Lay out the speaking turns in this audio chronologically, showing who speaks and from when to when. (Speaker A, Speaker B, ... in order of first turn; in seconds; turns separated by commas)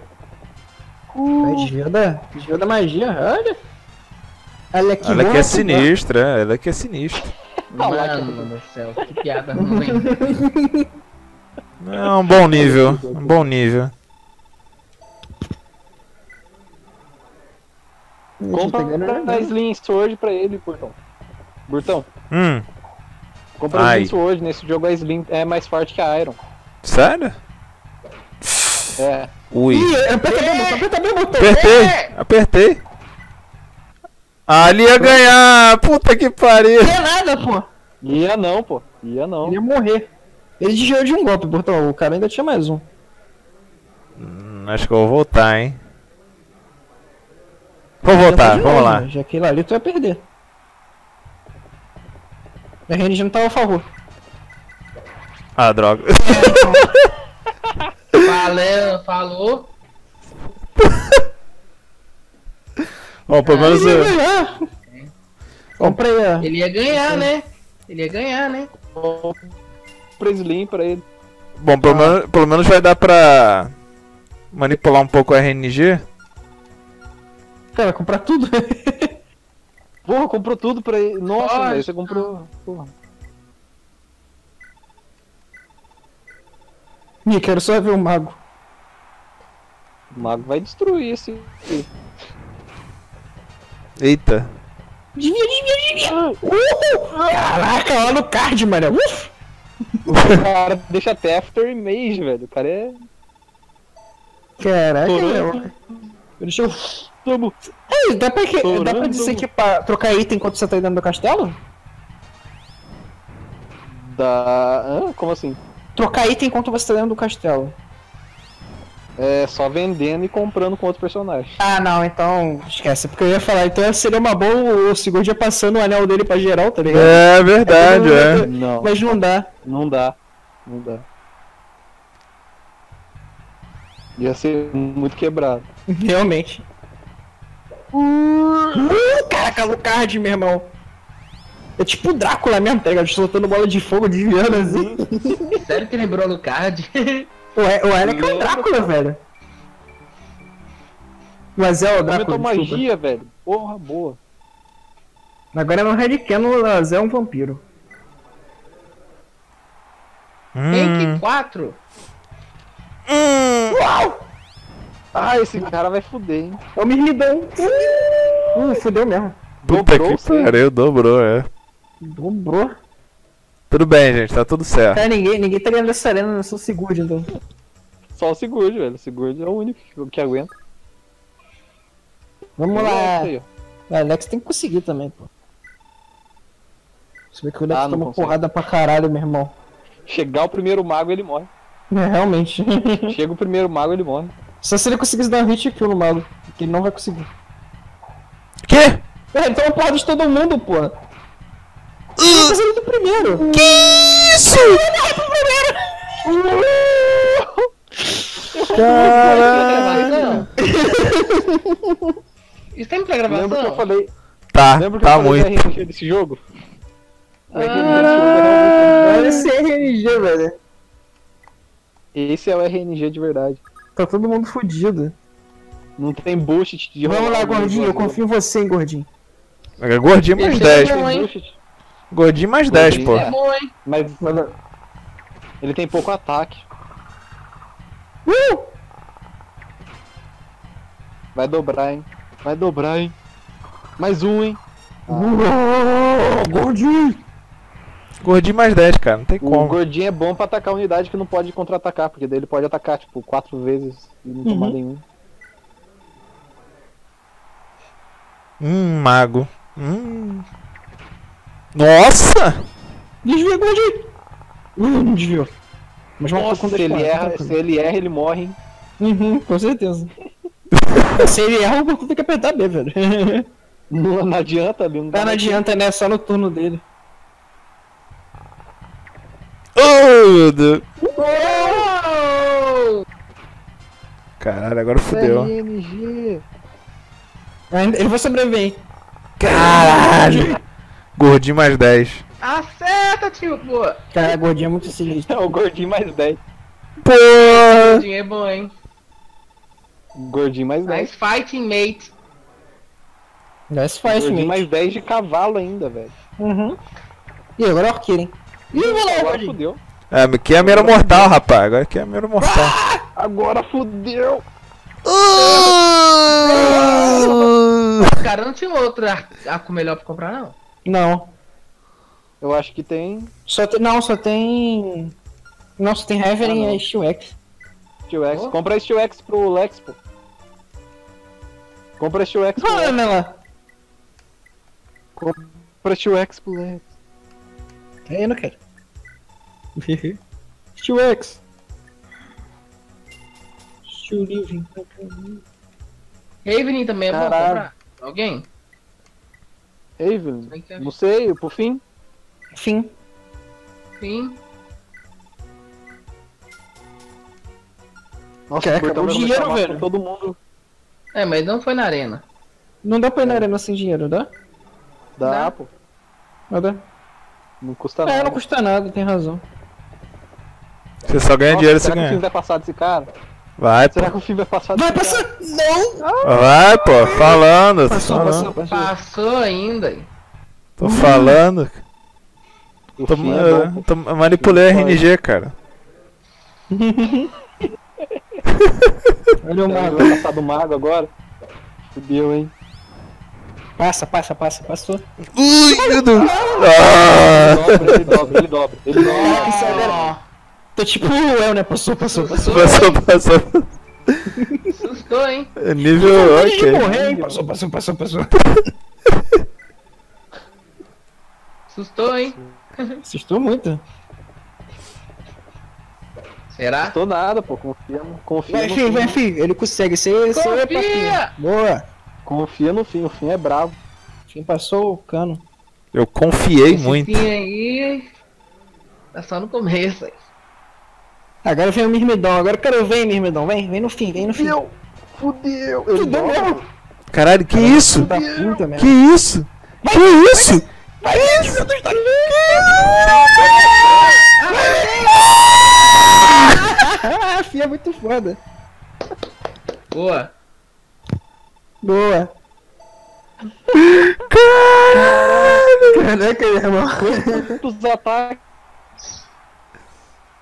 Speaker A: 1.1-1.7, Speaker B: 1.4-3.6, Speaker B: 4.7-5.9, Speaker C: 5.0-7.3, Speaker D: 7.7-10.4, Speaker A: 7.7-8.5, Speaker B: 9.6-10.9, Speaker C: 11.8-13.9, Speaker A: 12.0-13.5, Speaker B: 18.4-19.5, Speaker A: 18.5-21.0, Speaker A: 21.7-22.1, Speaker C: 22.3-22.6, Speaker A: 23.6-26.4, Speaker C: 23.7-24.1, Speaker C: 26.8-27.4, Speaker C: 28.5-28.8, Speaker A: 29.0-29.3, Speaker C: 29.5-29.9, Speaker B: 29.7-31.6, Speaker D: 30.2-30.9, Speaker C: 31.4-32.8, Speaker D: 31.5-32.1, Speaker C: 34.5-37.0, Speaker B: 36.8-37.7, Speaker A: 38.0-39.6, Speaker B: 39.4-40.1, Speaker B: 40.6-42.9, Speaker C: 44.2-45.8, Speaker C: 48.0-49.1, Speaker B: 48.2-50.2, Speaker B: 52.9-53.9, Speaker C: 55.6-56.9, Speaker B: 56.2-56.9, Speaker D: 58.2-59.7, Speaker C: 60.8-61.2, Speaker C: 63.3-64.1, Speaker D: 63.4-64.1, Speaker B: 63.6-64.6, Speaker D: 64.8-65.1, Speaker B: 65.8-67.3, Speaker D: 66.4-68.7, Speaker A: 69.0-69.5, Speaker A: 70.2-71.0, Speaker C: 71.6-73.7, Speaker B: 71.8-72.2, Speaker C: 74.5-76.0, Speaker B: 77.7-79.2, Speaker A: 80.0-82.9, Speaker D: 81.3-82.3, Speaker B: 87.2-88.4, Speaker A: 90.1-91.9, Speaker C: 94.0-94.5, Speaker B: 95.2-99.3, Speaker A: 96.1-96.4, Speaker A: 100.1-103.0, Speaker B: 104.6-105.7, Speaker A: 105.1-106.1, Speaker B: 106.4-107.0, Speaker A: 107.2-107.5, Speaker B: 107.9-111.6, Speaker A: 108.6-109.5, Speaker A: 113.9-115.6, Speaker B: 116.0-117.8, Speaker A: 119.2-121.6, Speaker B: 121.6-129.5, Speaker A: 126.8-127.2, Speaker C: 126.9-128.5, Speaker A: 128.4-131.1, Speaker A: 134.2-135.7, Speaker B: 135.9-136.7, Speaker A: 137.9-138.8, Speaker B: 138.8-140.7, Speaker B: 141.8-145.6, Speaker A: 144.5-145.0, Speaker D: 145.5-147.3, Speaker B: 147.6-149.2, Speaker A: 148.0-148.9, Speaker B: 151.6-152.8, Speaker A: 152.0-154.2, Speaker B: 155.5-157.6, Speaker C: 160.6-161.2, Speaker D: 160.7-161.8, Speaker C: 163.1-163.8, Speaker B: 163.7-164.2, Speaker A: 165.1-166.6, Speaker B: 166.8-169.4, Speaker A: 168.0-168.5, Speaker A: 169.6-170.6, Speaker C: 169.6-171.5, Speaker B: 172.0-172.8, Speaker C: 173.7-175.0, Speaker B: 174.9-177.3, Speaker A: 178.2-180.6, Speaker B: 182.6-183.3, Speaker A: 182.7-183.5, Speaker B: 183.9-185.3, Speaker B: 187.3-189.6, Speaker A: 187.7-188.4, Speaker A: 190.1-191.5, Speaker B: 191.9-193.2, Speaker A: 193.1-194.3, Speaker B: 194.6-197.3, Speaker C: 198.7-199.0, Speaker B: 199.3-200.9, Speaker C: 202.2-202.6, Speaker B: 202.2-203.8, Speaker C: 203.5-204.8, Speaker B: 204.5-206.4, Speaker A: 206.3-207.5, Speaker A: 208.5-210.5, Speaker C: 208.7-210.4, Speaker D: 209.2-210.5, Speaker B: 210.3-212.2, Speaker D: 212.7-213.8, Speaker A: 213.3-214.1, Speaker C: 214.5-215.6, Speaker A: 214.8-216.4, Speaker A: 217.5-219.5, Speaker D: 217.5-219.4, Speaker B: 219.0-220.6, Speaker A: 222.1-223.6, Speaker B: 224.0-225.2, Speaker A: 226.0-228.2, Speaker B: 227.0-229.1, Speaker C: 229.8-231.0, Speaker D: 230.4-231.3, Speaker A: 230.4-231.6, Speaker C: 232.1-233.3, Speaker A: 232.7-234.2, Speaker D: 232.8-233.7, Speaker B: 234.2-234.5, Speaker A: 235.6-236.7, Speaker B: 238.3-238.7, Speaker A: 241.3-243.2, Speaker A: 244.0-245.4, Speaker B: 245.1-247.2, Speaker C: 248.2-249.8, Speaker A: 249.4-255.0, Speaker B: 254.4-254.8, Speaker C: 258.6-260.4, Speaker C: 261.7-262.7, Speaker B: 263.2-264.1, Speaker B: 264.8-265.5, Speaker B: 266.2-267.6, Speaker A: 266.3-268.6, Speaker B: 269.0-270.1, Speaker C: 270.8-271.1, Speaker B: 271.1-273.5, Speaker A: 273.9-275.7, Speaker B: 275.1-276.8, Speaker C: 279.8-280.9, Speaker A: 281.2-281.6, Speaker B: 281.2-281.9, Speaker D: 281.2-283.1, Speaker C: 284.4-285.5, Speaker A: 285.1-286.4, Speaker B: 287.7-288.8, Speaker C: 289.4-290.6, Speaker A: 289.5-290.4, Speaker C: 291.2-292.2, Speaker D: 292.4-294.0, Speaker B: 294.1-295.3, Speaker A: 295.3-296.4, Speaker C: 297.0-298.1, Speaker D: 297.5-298.7, Speaker A: 300.1-301.1, Speaker D: 300.9-302.1, Speaker B: 303.7-304.7, Speaker A: 304.1-306.1, Speaker B: 306.4-306.8, Speaker B: 307.6-309.6, Speaker A: 308.7-309.8, Speaker C: 310.1-312.8, Speaker A: 310.6-311.4, Speaker B: 312.4-313.0, Speaker A: 313.1-314.4, Speaker C: 315.1-318.2, Speaker A: 315.4-315.8, Speaker B: 316.5-317.4, Speaker A: 316.5-317.5, Speaker D: 318.0-320.6, Speaker B: 320.9-321.3, Speaker A: 322.4-323.3, Speaker B: 323.5-325.1, Speaker B: 325.8-327.3, Speaker A: 326.4-326.8, Speaker A: 328.1-330.0, Speaker A: 332.0-333.0, Speaker B: 332.6-333.4, Speaker A: 335.2-336.9, Speaker B: 338.1-338.6, Speaker B: 339.8-340.2, Speaker B: 340.8-341.4, Speaker B: 343.9-345.4, Speaker D: 346.4-348.5, Speaker A: 347.1-347.7, Speaker A: 350.0-351.8, Speaker D: 350.5-350.9, Speaker B: 352.5-352.9, Speaker D: 354.0-354.4, Speaker A: 358.5-360.4, Speaker B: 358.6-359.9, Speaker D: 361.1-362.2, Speaker B: 362.8-364.3, Speaker A: 363.2-363.5, Speaker A: 365.2-365.7, Speaker D: 365.2-365.5, Speaker B: 366.5-366.8, Speaker A: 367.6-368.4, Speaker B: 368.1-369.4, Speaker C: 371.1-372.2, Speaker A: 371.5-373.1, Speaker C: 373.6-374.1, Speaker A: 373.9-375.2, Speaker B: 374.8-376.0, Speaker A: 376.0-376.5, Speaker C: 376.2-378.5, Speaker B: 377.9-378.9, Speaker D: 378.1-380.1, Speaker C: 380.8-381.8, Speaker B: 380.8-381.4, Speaker A: 383.0-385.0, Speaker C: 383.1-385.5, Speaker B: 386.7-387.3, Speaker C: 388.5-389.1, Speaker B: 389.4-390.2, Speaker A: 389.7-391.1, Speaker A: 391.9-392.5, Speaker B: 393.8-395.0, Speaker C: 395.4-398.1, Speaker B: 395.7-397.0, Speaker A: 397.2-399.9, Speaker B: 397.9-398.3, Speaker B: 398.9-400.1, Speaker D: 399.0-400.2, Speaker B: 400.8-402.8, Speaker D: 402.1-403.0, Speaker C: 402.5-404.3, Speaker B: 404.3-404.8, Speaker D: 404.8-405.5, Speaker C: 405.6-406.9, Speaker B: 405.9-408.4, Speaker A: 406.5-407.4, Speaker D: 411.7-413.0, Speaker B: 413.1-413.8, Speaker D: 416.5-417.0, Speaker A: 416.8-419.2, Speaker B: 418.5-421.9, Speaker D: 420.3-421.3, Speaker A: 422.2-423.8, Speaker B: 424.3-425.4, Speaker C: 425.9-427.2, Speaker D: 426.7-428.1, Speaker D: 429.1-430.2, Speaker B: 431.4-434.6, Speaker A: 434.2-436.6, Speaker B: 435.9-436.7, Speaker C: 437.1-438.1, Speaker B: 437.5-438.9, Speaker A: 437.9-438.6, Speaker C: 438.8-440.6, Speaker B: 439.8-443.6, Speaker A: 441.1-442.9, Speaker C: 441.3-441.6, Speaker A: 443.5-444.1, Speaker D: 444.4-445.3, Speaker B: 444.6-445.1, Speaker B: 446.2-448.4, Speaker D: 449.9-450.3, Speaker B: 451.8-452.3, Speaker C: 453.7-455.7, Speaker A: 454.9-456.0, Speaker B: 455.9-457.6, Speaker A: 457.0-458.4